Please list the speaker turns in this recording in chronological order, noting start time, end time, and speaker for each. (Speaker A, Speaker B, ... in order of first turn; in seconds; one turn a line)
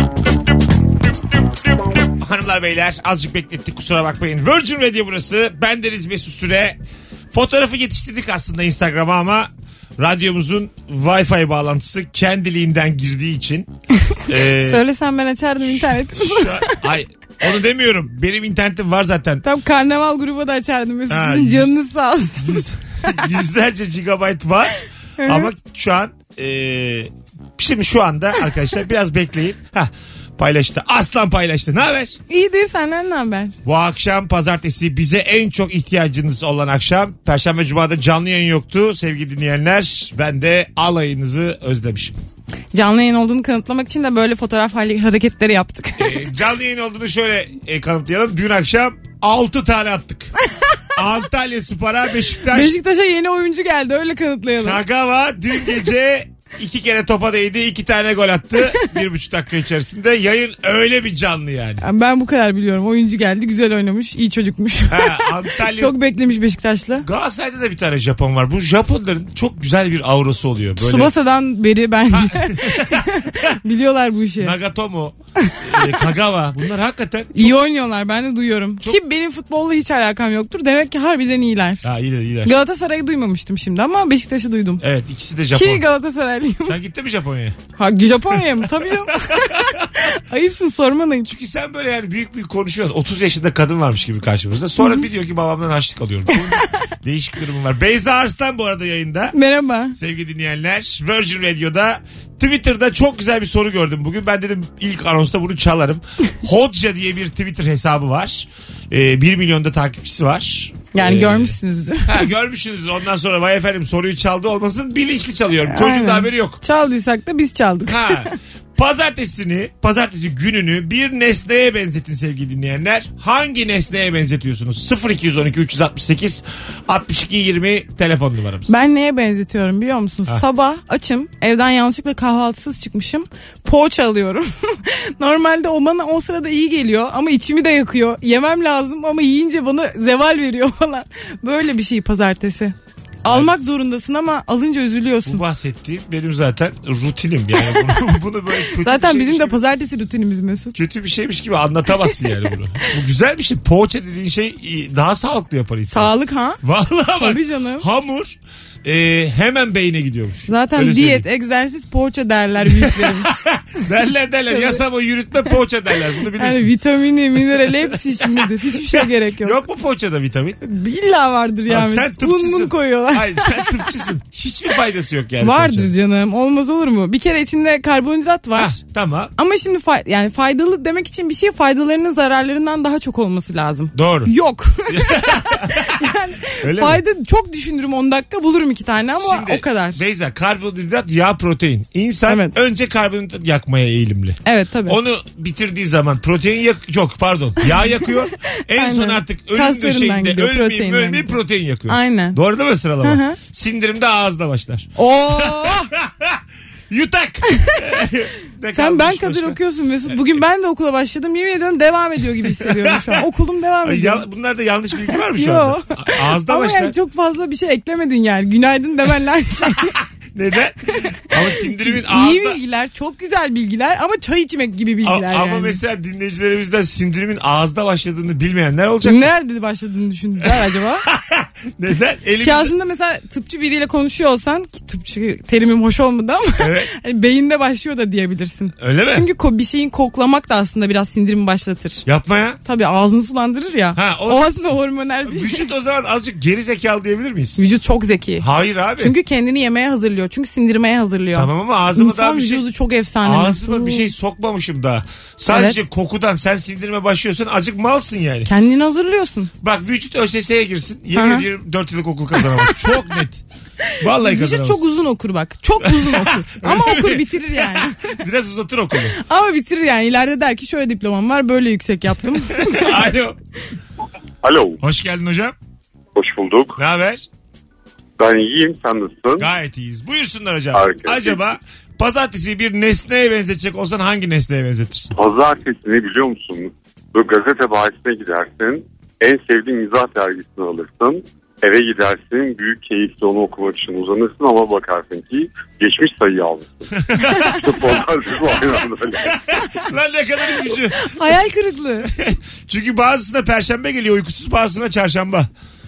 Speaker A: 1.4-6.8
Speaker A: 7.3-13.7
Speaker A: 14.3-14.8
Speaker B: 14.3-16.8
Speaker A: 15.6-19.4
Speaker B: 19.4-23.1
Speaker A: 21.1-21.7
Speaker A: 22.4-32.2
Speaker B: 25.2-25.5
Speaker B: 32.3-33.5
Speaker A: 33.6-42.2
Speaker B: 42.7-46.2
Speaker A: 46.0-50.3
Speaker A: 50.9-52.8
Speaker B: 52.5-54.8
Speaker A: 54.6-61.8
Speaker B: 61.8-67.1
Speaker A: 64.9-65.9
Speaker A: 67.0-71.1
Speaker B: 70.8-74.5
Speaker A: 72.1-73.5
Speaker A: 74.4-77.5
Speaker B: 75.4-76.0
Speaker B: 77.3-81.8
Speaker A: 81.8-82.5
Speaker B: 82.4-84.8
Speaker A: 84.8-85.8
Speaker B: 85.5-86.8
Speaker A: 86.7-87.6
Speaker B: 87.8-91.3
Speaker A: 88.3-90.1
Speaker A: 91.3-99.3
Speaker B: 94.8-95.0
Speaker B: 99.3-100.0
Speaker A: 99.9-116.6
Speaker B: 110.9-112.3
Speaker B: 115.7-118.3
Speaker A: 117.8-128.7
Speaker B: 128.7-145.4
Speaker A: 143.2-143.5
Speaker A: 145.2-149.6
Speaker B: 148.8-150.8
Speaker A: 150.7-156.1
Speaker B: 155.9-156.6
Speaker A: 156.6-161.2
Speaker B: 157.2-157.8
Speaker B: 160.5-163.4
Speaker A: 162.7-166.7
Speaker B: 164.5-164.8
Speaker B: 166.3-169.6
Speaker A: 167.3-170.6
Speaker B: 170.6-173.8
Speaker A: 171.7-175.9
Speaker B: 175.4-178.8
Speaker A: 178.5-179.3
Speaker B: 179.4-190.0
Speaker A: 183.9-184.3
Speaker A: 184.9-186.0
Speaker A: 186.6-187.0
Speaker A: 189.2-210.2
Speaker B: 192.3-192.6
Speaker B: 194.4-195.0
Speaker B: 198.7-201.4
Speaker B: 201.9-202.4
Speaker B: 203.0-203.4
Speaker B: 205.0-205.9
Speaker B: 208.7-214.2
Speaker A: 212.4-213.2
Speaker A: 213.8-216.9
Speaker B: 215.3-220.0
Speaker A: 220.3-222.6
Speaker B: 221.3-225.8
Speaker A: 225.0-229.3
Speaker B: 229.0-231.1
Speaker A: 230.4-232.7
Speaker B: 232.4-242.0
Speaker A: 236.6-236.9
Speaker A: 238.8-239.3
Speaker A: 242.1-242.6
Speaker B: 242.6-245.7
Speaker A: 243.9-244.6
Speaker A: 245.2-247.6
Speaker B: 247.6-254.1
Speaker A: 248.4-249.1
Speaker A: 251.3-252.7
Speaker A: 253.2-258.5
Speaker B: 255.5-255.8
Speaker B: 258.4-259.5
Speaker A: 259.6-263.4
Speaker B: 261.1-261.4
Speaker A: 264.0-264.8
Speaker B: 264.1-268.1
Speaker A: 265.8-269.2
Speaker B: 269.2-273.1
Speaker A: 272.6-273.4
Speaker C: 274.4-274.8
Speaker A: 274.8-275.5
Speaker C: 276.1-276.8
Speaker A: 276.8-277.2
Speaker C: 278.2-279.5
Speaker A: 279.4-285.1
Speaker C: 280.7-281.4
Speaker C: 285.1-296.9
Speaker A: 297.0-301.1
Speaker C: 297.6-299.3
Speaker B: 301.0-302.1
Speaker A: 302.0-305.5